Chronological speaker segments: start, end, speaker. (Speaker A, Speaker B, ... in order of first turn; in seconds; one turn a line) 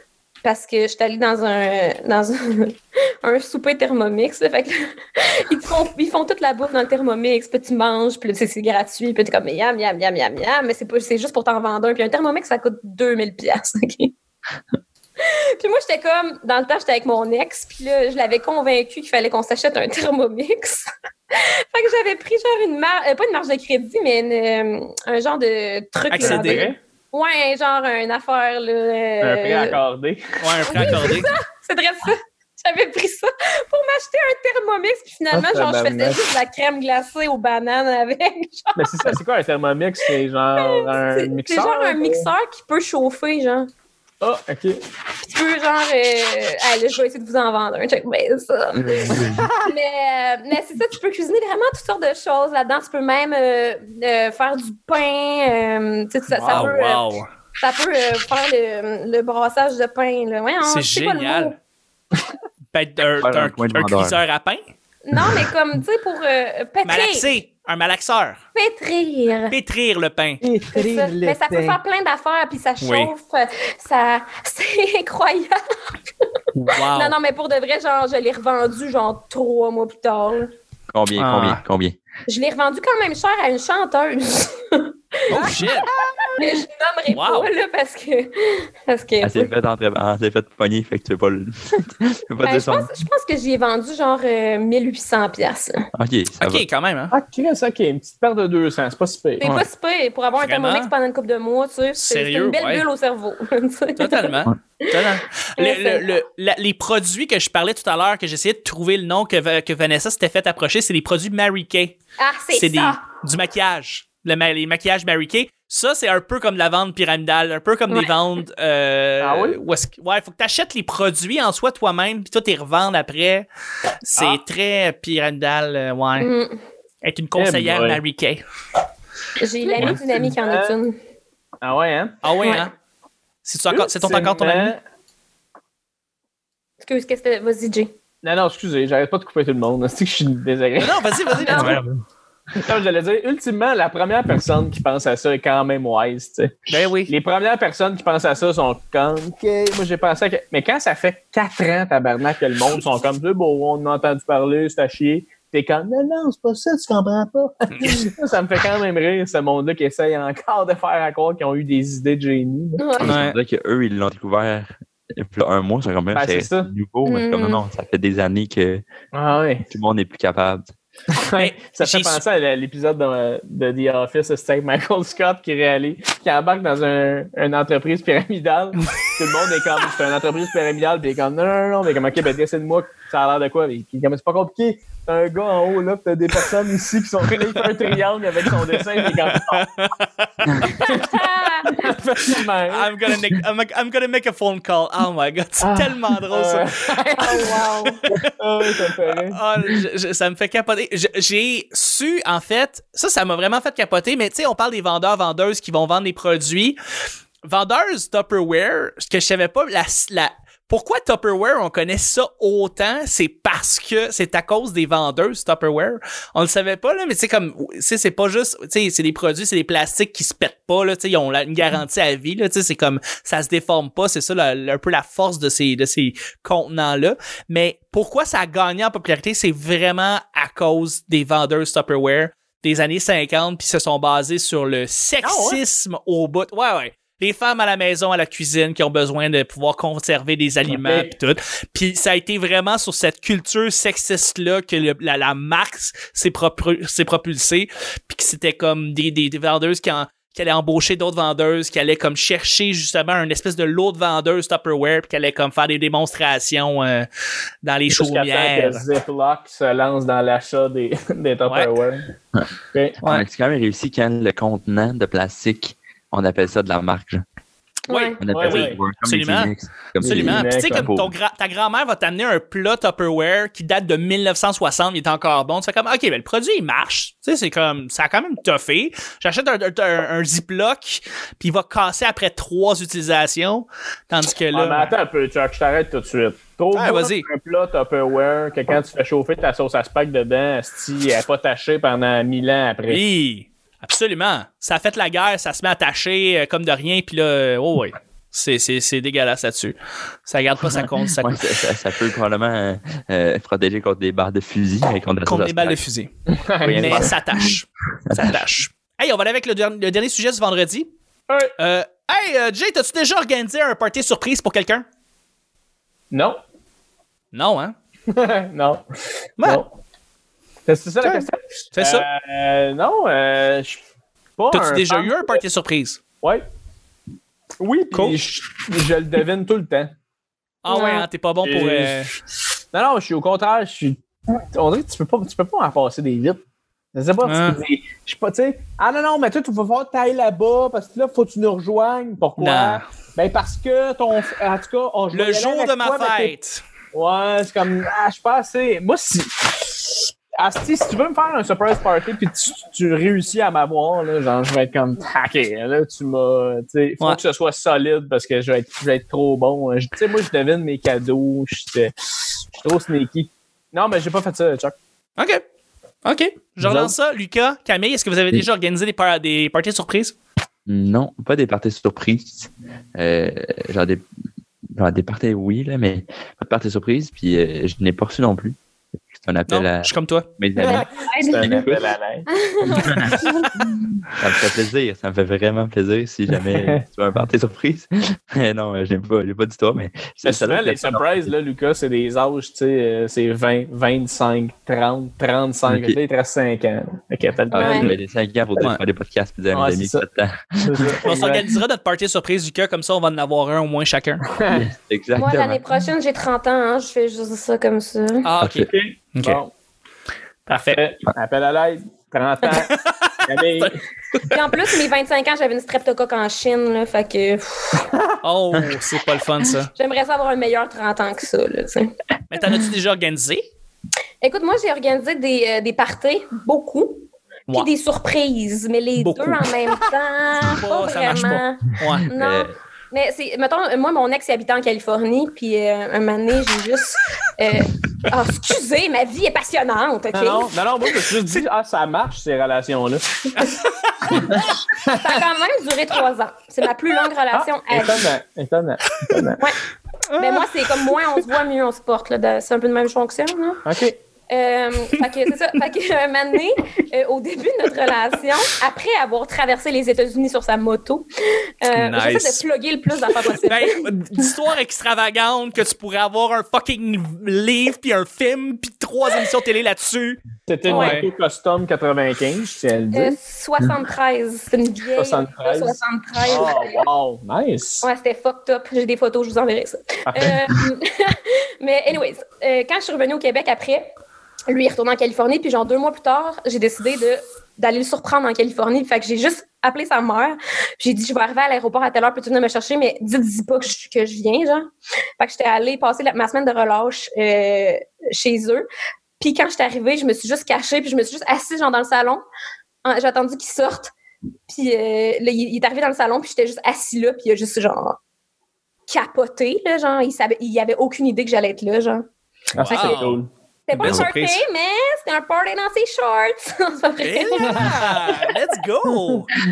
Speaker A: 0.4-14.1
Speaker A: 15.2-29.8
Speaker B: 26.1-26.7
Speaker C: 26.2-26.8
Speaker C: 29.2-31.1
Speaker B: 30.4-31.3
Speaker A: 30.7-39.1
Speaker C: 35.3-36.2
Speaker C: 38.8-42.3
Speaker A: 40.6-43.7
Speaker C: 44.2-44.8
Speaker A: 45.2-61.5
Speaker D: 48.7-49.5
Speaker C: 49.1-49.7
Speaker C: 56.4-56.7
Speaker B: 56.4-57.3
Speaker B: 60.6-61.5
Speaker B: 62.7-64.6
Speaker D: 63.2-64.2
Speaker A: 65.0-67.3
Speaker B: 66.8-68.4
Speaker A: 68.5-69.5
Speaker B: 69.5-70.4
Speaker C: 70.4-71.8
Speaker A: 70.7-75.6
Speaker B: 72.8-73.1
Speaker B: 76.5-77.1
Speaker A: 76.8-80.5
Speaker D: 80.9-82.0
Speaker B: 81.2-81.6
Speaker A: 82.3-85.6
Speaker B: 85.3-85.9
Speaker C: 85.3-86.4
Speaker A: 86.4-89.5
Speaker B: 87.1-87.5
Speaker D: 89.2-92.9
Speaker A: 92.4-95.8
Speaker D: 95.9-96.6
Speaker B: 96.4-97.1
Speaker C: 97.1-99.6
Speaker A: 99.4-104.3
Speaker B: 100.4-100.9
Speaker B: 102.0-102.8
Speaker B: 104.0-112.0
Speaker A: 105.6-106.0
Speaker A: 112.2-113.0
Speaker B: 112.5-123.5
Speaker C: 119.2-119.6
Speaker B: 124.0-126.3
Speaker C: 124.1-124.4
Speaker A: 126.2-126.6
Speaker B: 127.0-128.4
Speaker C: 127.3-128.0
Speaker A: 129.4-131.0
Speaker C: 129.7-130.8
Speaker C: 131.6-132.2
Speaker B: 132.2-132.7
Speaker A: 132.4-132.7
Speaker B: 133.4-134.7
Speaker C: 133.7-134.8
Speaker A: 136.8-137.9
Speaker C: 138.2-141.8
Speaker B: 140.8-142.0
Speaker A: 141.4-141.8
Speaker C: 142.6-162.8
Speaker B: 146.7-147.1
Speaker B: 157.7-158.0
Speaker A: 162.8-163.2
Speaker D: 163.0-168.8
Speaker B: 163.0-163.4
Speaker C: 166.1-166.7
Speaker A: 167.1-167.6
Speaker C: 169.1-169.7
Speaker D: 169.7-170.7
Speaker C: 171.1-189.7
Speaker B: 171.4-172.2
Speaker B: 189.0-190.8
Speaker C: 190.6-192.9
Speaker A: 190.6-191.9
Speaker B: 192.7-196.8
Speaker C: 195.6-197.6
Speaker A: 197.2-198.0
Speaker C: 198.2-199.8
Speaker B: 198.8-206.8
Speaker B: 207.4-257.1
Speaker C: 235.2-235.6
Speaker C: 240.7-241.1
Speaker B: 257.6-258.8
Speaker C: 257.9-262.1
Speaker D: 263.0-267.2
Speaker A: 267.9-268.2
Speaker B: 267.9-284.9
Speaker D: 268.2-271.1
Speaker C: 268.3-268.8
Speaker C: 270.0-270.9
Speaker C: 284.5-293.0
Speaker B: 286.7-287.3
Speaker B: 292.9-301.4
Speaker D: 301.2-305.8
Speaker B: 305.2-306.1
Speaker C: 306.3-307.1
Speaker D: 306.6-307.5
Speaker B: 306.8-310.9
Speaker D: 308.1-308.4
Speaker B: 311.6-314.8
Speaker C: 316.1-316.4
Speaker B: 317.3-317.7
Speaker C: 318.1-318.8
Speaker C: 319.4-319.8
Speaker C: 320.7-323.8
Speaker B: 321.0-322.1
Speaker C: 324.4-325.4
Speaker B: 324.5-326.0
Speaker C: 327.6-329.9
Speaker B: 327.9-328.2
Speaker B: 330.6-332.1
Speaker A: 330.7-331.1
Speaker C: 331.4-332.1
Speaker C: 332.7-336.4
Speaker C: 336.9-346.3
Speaker B: 337.2-337.6
Speaker B: 342.4-342.8
Speaker B: 345.1-346.6
Speaker C: 346.9-361.9
Speaker C: 362.5-364.7
Speaker B: 365.2-365.4
Speaker B: 366.0-370.1
Speaker C: 366.6-366.9
Speaker D: 370.6-374.0
Speaker D: 374.7-378.6
Speaker D: 379.1-381.9
Speaker B: 379.5-380.3
Speaker C: 380.6-382.3
Speaker A: 380.7-381.6
Speaker A: 382.3-383.6
Speaker D: 382.6-383.3
Speaker D: 384.1-391.3
Speaker C: 386.4-386.8
Speaker C: 390.2-397.9
Speaker D: 395.7-396.0
Speaker D: 397.5-401.0
Speaker A: 397.5-397.9
Speaker C: 399.5-400.0
Speaker C: 400.6-401.5
Speaker B: 401.0-404.2
Speaker C: 404.3-404.7
Speaker D: 404.5-405.6
Speaker A: 405.1-408.3
Speaker B: 408.2-409.4
Speaker D: 408.4-408.7
Speaker C: 408.6-409.5
Speaker B: 410.5-410.8
Speaker C: 410.5-413.8
Speaker B: 412.5-414.3
Speaker A: 414.3-417.9
Speaker B: 418.2-419.7
Speaker A: 419.7-421.9
Speaker B: 422.3-423.4
Speaker A: 424.2-440.5
Speaker B: 429.0-429.4
Speaker B: 430.4-432.1
Speaker D: 432.1-432.5
Speaker C: 440.1-443.5
Speaker B: 443.4-444.2
Speaker C: 444.1-445.2
Speaker A: 444.9-448.1
Speaker C: 447.3-449.4
Speaker B: 450.1-451.0
Speaker A: 450.2-453.6
Speaker C: 453.6-454.0
Speaker A: 454.3-461.1
Speaker A: 461.6-464.3
Speaker B: 461.7-462.4
Speaker B: 463.4-471.1
Speaker C: 470.5-473.2
Speaker A: 470.6-471.0
Speaker A: 472.9-476.9
Speaker C: 474.9-477.9
Speaker A: 477.8-483.9
Speaker C: 480.1-480.4
Speaker A: 484.5-498.6
Speaker A: 499.2-502.2
Speaker A: 502.8-503.9
Speaker A: 504.5-508.0
Speaker A: 508.9-512.0
Speaker C: 512.5-513.3
Speaker B: 512.6-513.2
Speaker A: 512.7-513.0
Speaker A: 513.7-517.7
Speaker B: 513.7-514.4
Speaker D: 513.8-514.1
Speaker B: 517.0-519.3
Speaker C: 517.4-518.3